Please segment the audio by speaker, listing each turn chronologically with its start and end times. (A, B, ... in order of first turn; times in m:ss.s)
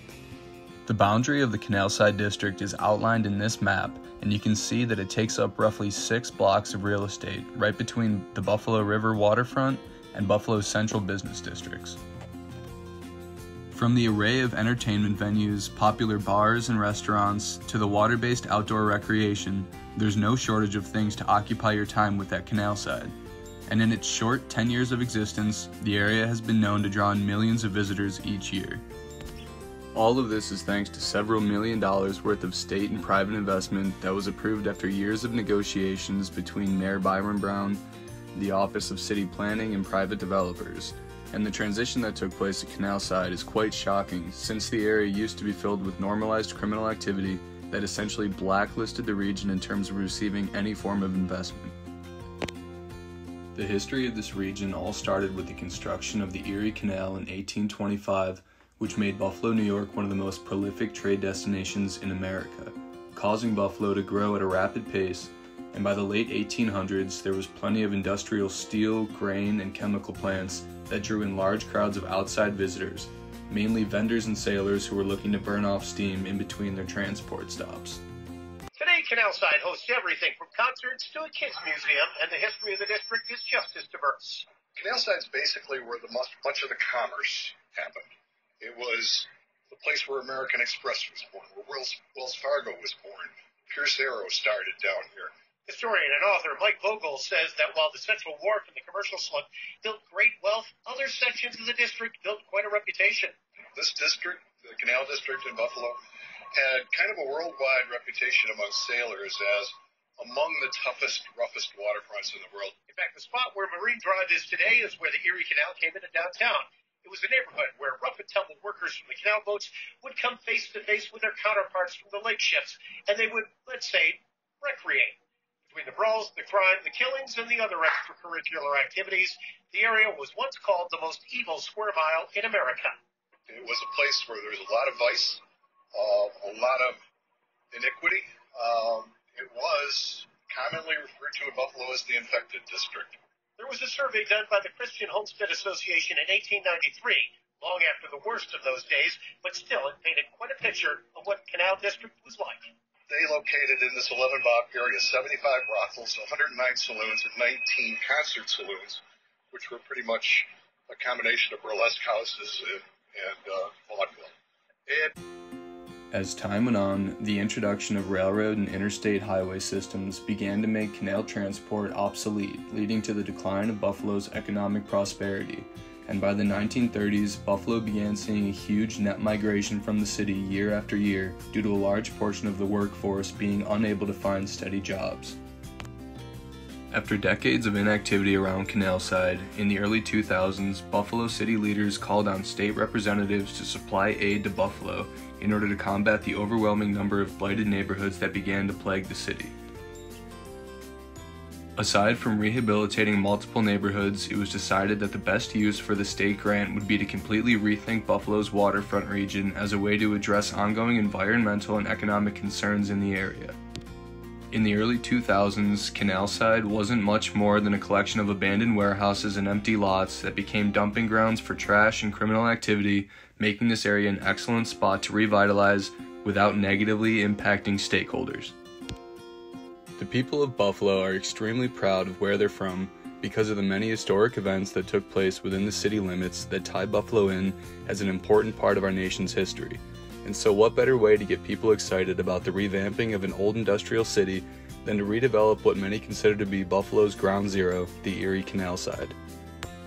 0:00.8-0:12.0 A
0:13.7-0:23.1 A
0:23.7-0:28.8 A
0:29.9-0:37.8 A
0:38.3-0:51.7 A
0:53.5-1:18.0 A
1:18.8-1:24.5 B
1:24.7-1:28.1 C
1:28.6-1:35.3 C
1:35.7-1:43.3 B
1:43.7-1:46.0 C
1:46.5-1:52.7 C
1:52.9-2:12.9 B
2:13.5-2:15.4 C
2:15.9-2:17.0 C
2:17.7-2:23.2 C
2:23.6-2:32.7 B
2:33.1-2:39.0 C
2:39.5-2:44.3 C
2:44.9-2:45.1 C
2:46.1-3:05.4 A
3:06.9-3:19.6 A
3:21.8-3:33.6 A
3:34.5-3:48.5 A
3:50.0-4:09.2 A